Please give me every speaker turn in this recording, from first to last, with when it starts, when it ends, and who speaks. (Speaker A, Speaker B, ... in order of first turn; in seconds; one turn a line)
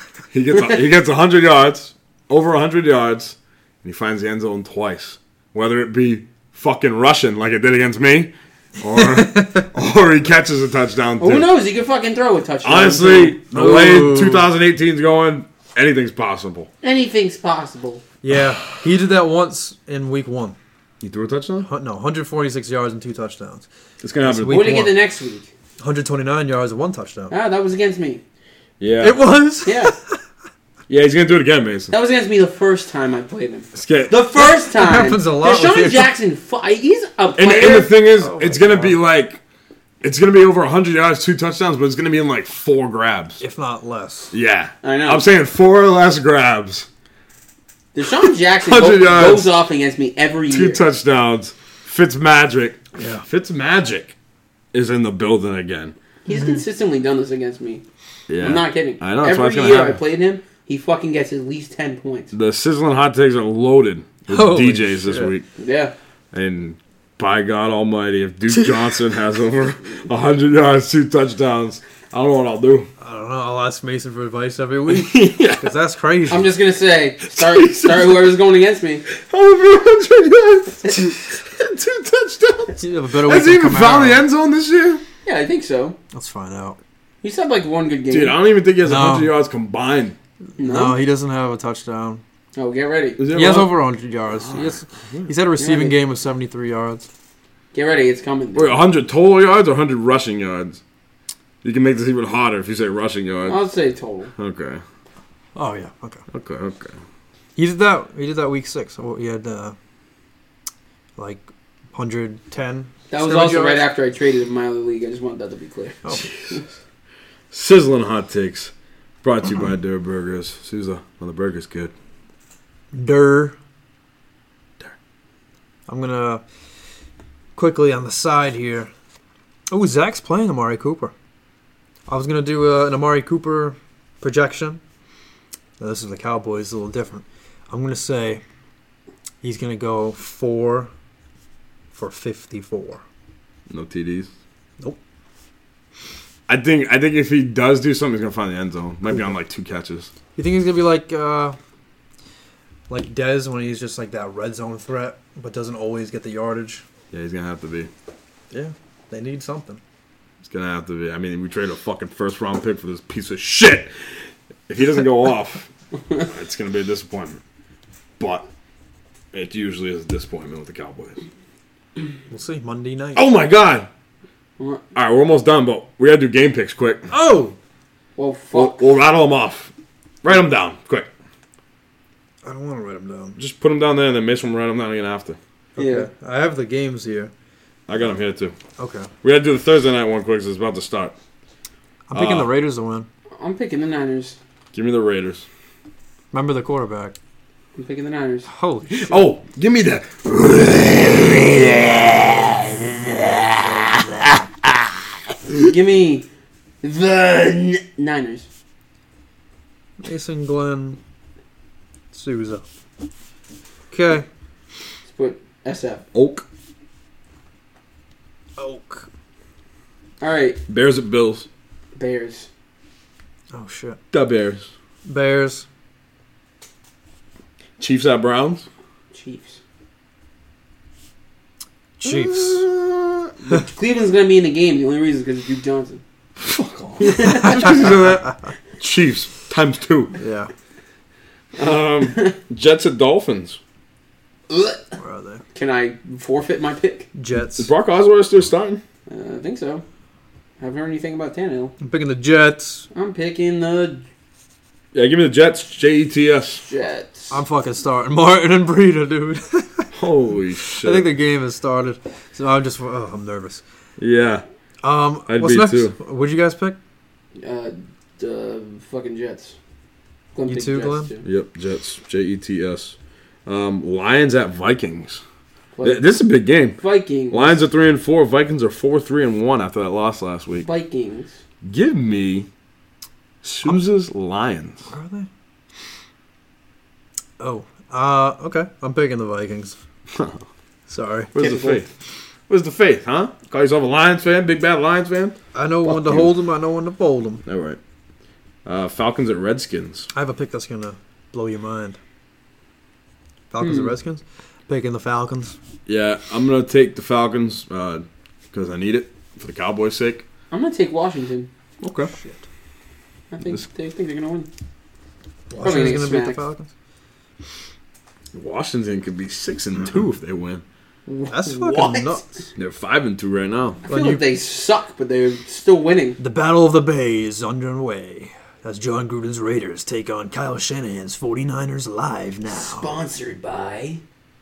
Speaker A: 0.3-11.5
Speaker B: 8.9-9.7
Speaker C: 11.2-13.3
Speaker A: 12.6-16.7
Speaker B: 13.3-14.5
Speaker C: 16.8-18.0
Speaker B: 18.2-20.6
Speaker A: 21.0-21.7
Speaker B: 21.6-23.7
Speaker A: 24.0-24.9
Speaker B: 24.2-24.9
Speaker C: 24.5-25.5
Speaker B: 25.8-27.3
Speaker C: 27.3-28.2
Speaker A: 28.8-29.2
Speaker B: 29.0-30.2
Speaker C: 29.6-29.9
Speaker A: 30.9-31.9
Speaker C: 31.9-37.9
Speaker A: 33.7-34.1
Speaker B: 34.3-36.1
Speaker A: 37.4-39.4
Speaker B: 38.2-39.0
Speaker A: 40.0-43.4
Speaker B: 43.4-44.3
Speaker A: 44.3-46.9
Speaker C: 44.8-45.2
Speaker C: 47.9-50.8
Speaker A: 48.6-49.5
Speaker A: 50.5-54.1
Speaker B: 53.0-53.2
Speaker A: 54.7-55.9
Speaker C: 56.2-57.8
Speaker B: 56.3-56.6
Speaker A: 58.3-60.0
Speaker C: 58.4-62.3
Speaker A: 62.3-65.5
Speaker B: 64.3-65.3
Speaker C: 65.6-65.9
Speaker A: 66.3-72.9
Speaker B: 73.0-76.5
Speaker A: 74.9-75.7
Speaker C: 76.3-79.0
Speaker A: 77.3-78.3
Speaker A: 79.1-85.0
Speaker B: 82.7-84.2
Speaker C: 85.2-86.0
Speaker B: 86.1-86.8
Speaker C: 87.2-88.3
Speaker A: 88.1-90.2
Speaker B: 88.8-89.3
Speaker B: 90.6-92.2
Speaker C: 90.6-91.0
Speaker C: 92.5-93.2
Speaker A: 93.2-93.8
Speaker B: 93.3-97.1
Speaker A: 94.3-95.3
Speaker C: 95.6-96.0
Speaker C: 97.7-98.8
Speaker A: 98.5-100.8
Speaker A: 101.6-103.6
Speaker C: 103.4-104.3
Speaker A: 104.3-104.8
Speaker B: 105.5-106.2
Speaker A: 106.3-107.0
Speaker B: 107.5-109.8
Speaker B: 111.2-113.8
Speaker C: 113.1-116.6
Speaker B: 116.0-116.3
Speaker A: 117.5-118.7
Speaker A: 119.2-121.9
Speaker B: 122.9-123.5
Speaker B: 125.9-126.4
Speaker B: 127.5-128.9
Speaker B: 129.7-131.1
Speaker B: 132.1-134.8
Speaker B: 135.8-138.4
Speaker B: 139.4-140.9
Speaker B: 141.9-143.0
Speaker A: 143.7-144.3
Speaker A: 146.5-150.1
Speaker B: 150.3-151.6
Speaker B: 152.9-156.8
Speaker A: 157.1-157.9
Speaker B: 158.5-159.8
Speaker A: 160.4-165.7
Speaker A: 166.2-167.4
Speaker A: 168.2-168.5
Speaker A: 169.3-171.2
Speaker B: 172.3-173.3
Speaker A: 173.1-173.9
Speaker A: 174.9-177.1
Speaker B: 177.1-177.6
Speaker C: 178.2-178.9
Speaker A: 178.5-179.7
Speaker A: 180.2-181.1
Speaker B: 182.4-183.4
Speaker A: 183.4-185.4
Speaker B: 185.8-187.3
Speaker C: 185.8-186.1
Speaker A: 187.9-188.6
Speaker B: 188.8-189.1
Speaker A: 189.2-191.1
Speaker B: 192.1-193.1
Speaker A: 192.1-192.5
Speaker C: 193.4-194.4
Speaker A: 194.7-195.4
Speaker B: 196.3-197.1
Speaker C: 197.8-198.5
Speaker B: 198.5-199.3
Speaker A: 198.9-205.7
Speaker B: 203.6-204.3
Speaker C: 205.6-206.3
Speaker C: 206.8-208.5
Speaker B: 210.0-211.0
Speaker B: 212.1-212.6
Speaker B: 213.9-214.2
Speaker C: 215.1-216.0
Speaker A: 216.1-216.4
Speaker B: 218.6-219.1
Speaker C: 220.2-220.6
Speaker A: 220.7-221.5
Speaker C: 221.9-222.5
Speaker B: 223.5-224.0
Speaker A: 224.1-224.7
Speaker B: 225.1-225.7
Speaker A: 227.8-228.7
Speaker C: 229.1-229.6
Speaker B: 232.0-232.7
Speaker A: 232.0-233.3
Speaker C: 233.5-236.0
Speaker A: 236.4-240.2
Speaker C: 237.0-237.9
Speaker B: 237.3-238.3
Speaker B: 240.2-240.5
Speaker A: 241.6-243.6
Speaker C: 242.1-242.3
Speaker C: 244.5-244.9
Speaker B: 245.0-245.4
Speaker C: 245.5-247.1
Speaker B: 247.1-247.7
Speaker A: 247.6-248.8
Speaker C: 249.1-249.8
Speaker C: 250.6-251.7
Speaker B: 251.8-252.9
Speaker C: 252.9-254.0
Speaker A: 254.9-256.6
Speaker C: 256.6-257.4
Speaker B: 257.3-259.9
Speaker A: 259.9-261.1
Speaker B: 260.8-263.6
Speaker A: 264.0-264.4
Speaker B: 264.8-266.8
Speaker A: 265.3-265.9
Speaker C: 267.4-269.6
Speaker C: 270.3-271.2
Speaker B: 270.5-271.1
Speaker A: 271.2-275.2
Speaker C: 275.7-276.1
Speaker A: 275.8-280.7
Speaker C: 276.8-277.6
Speaker C: 280.6-281.4
Speaker A: 281.6-282.5
Speaker A: 283.4-284.9
Speaker B: 284.9-285.3
Speaker B: 287.4-289.8
Speaker A: 290.1-290.4
Speaker B: 290.9-291.3
Speaker A: 291.3-291.9
Speaker C: 291.4-291.8
Speaker A: 292.5-296.3
Speaker B: 295.5-297.4
Speaker A: 297.4-297.8
Speaker A: 298.6-300.1
Speaker B: 300.1-302.0
Speaker B: 303.5-305.6
Speaker C: 303.6-303.9
Speaker A: 305.9-310.2
Speaker C: 310.5-311.5
Speaker A: 311.8-312.1
Speaker B: 312.1-312.4
Speaker C: 313.3-314.5
Speaker B: 315.5-316.7
Speaker C: 315.6-316.4
Speaker A: 318.3-320.6
Speaker C: 321.1-322.4
Speaker B: 321.3-322.2
Speaker A: 322.6-323.8
Speaker C: 323.8-326.2
Speaker B: 323.9-324.2
Speaker B: 326.2-332.9
Speaker C: 332.5-334.0